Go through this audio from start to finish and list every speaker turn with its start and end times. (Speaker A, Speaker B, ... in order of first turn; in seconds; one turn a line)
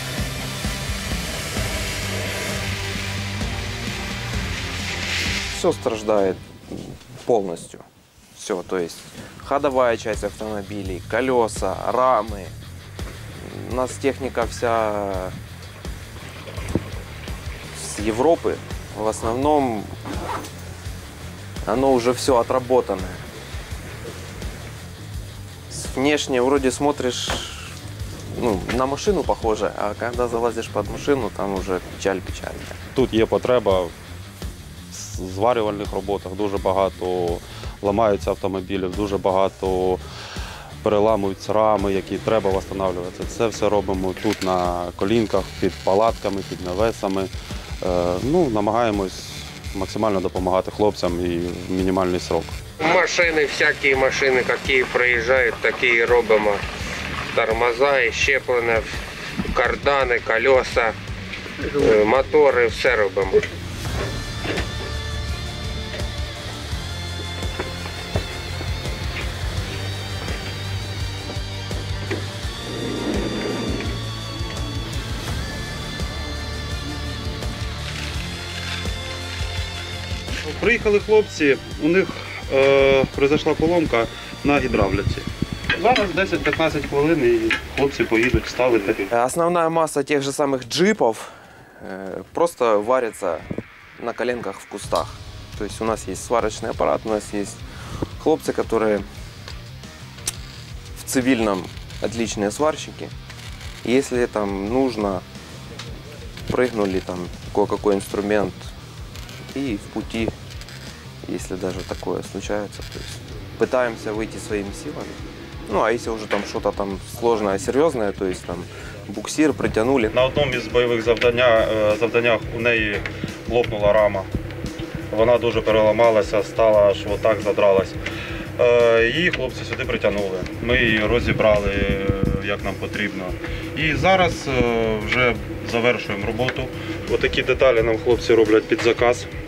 Speaker A: 5.5-12.5
Speaker A: 13.4-15.4
Speaker A: 17.7-20.0
Speaker A: 21.6-23.2
Speaker A: 25.7-27.8
Speaker A: 28.3-32.8
Speaker B: 32.9-33.9
Speaker B: 34.9-40.0
Speaker B: 40.8-52.5
Speaker C: 52.8-56.6
Speaker C: 57.3-58.9
Speaker C: 59.5-61.0
Speaker C: 61.6-63.4
Speaker B: 80.4-89.1
Speaker A: 89.1-97.6
Speaker A: 98.2-99.1
Speaker A: 101.0-103.1
Speaker A: 103.8-105.2
Speaker A: 106.5-108.7
Speaker A: 109.5-110.3
Speaker A: 111.2-120.2
Speaker B: 120.1-124.3
Speaker B: 125.1-128.0
Speaker B: 128.6-139.3